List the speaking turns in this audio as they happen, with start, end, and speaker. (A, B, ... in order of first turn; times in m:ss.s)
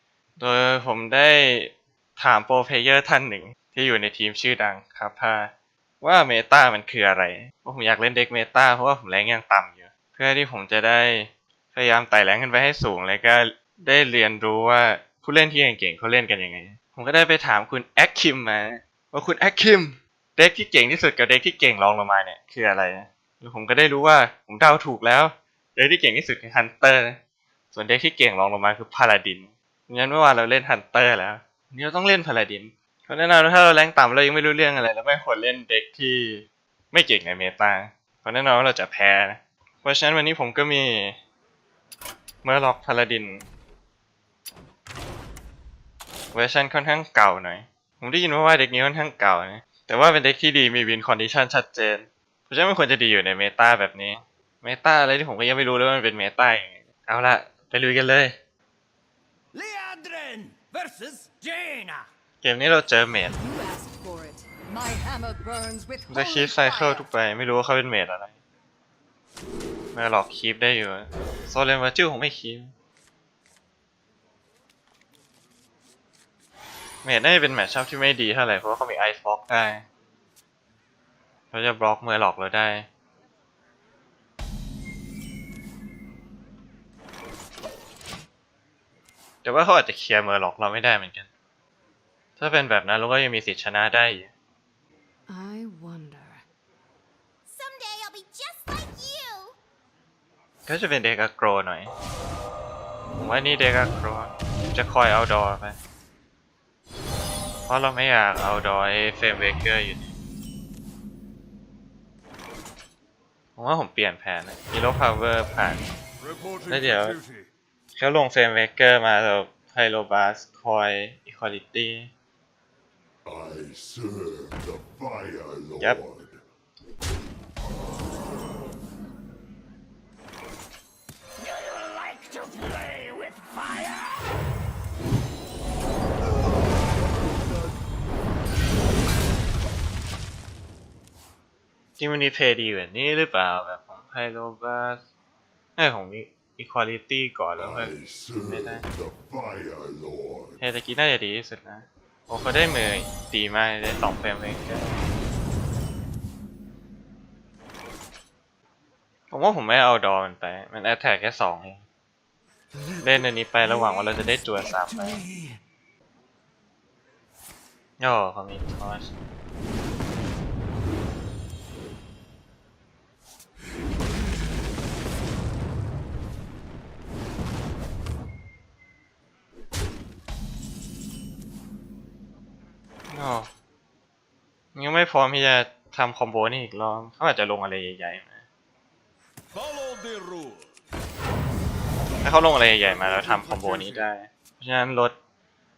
0:00.4-0:27.2 A
0:27.7-0:41.2 A
0:42.4-0:43.4 A
0:46.3-0:58.4 A
0:59.5-1:02.1 B
1:02.4-1:03.4 A
1:03.2-1:07.1 C
1:06.1-1:08.3 A
1:09.9-1:12.7 A
1:17.0-1:19.8 A
1:21.5-1:22.9 A
1:29.4-1:31.3 A
1:32.4-1:34.3 A
1:35.3-1:36.4 C
1:37.5-1:39.6 D
1:40.7-1:41.9 A
1:43.2-1:45.8 A
1:47.7-1:50.1 A
1:53.6-1:55.9 A
1:56.7-1:57.2 A
1:58.0-2:02.1 A
2:03.2-2:06.4 E
2:22.0-2:25.0 A
2:25.8-2:28.8 A
2:27.6-2:30.6 E
2:30.6-2:35.0 A
2:39.3-2:41.8 A
2:42.7-2:45.6 B
2:43.0-2:45.2 A
2:48.0-2:49.1 A
3:03.1-3:03.5 A
3:04.8-3:08.4 A
3:09.5-3:10.6 B
3:12.2-3:15.2 A
3:13.2-3:13.5 B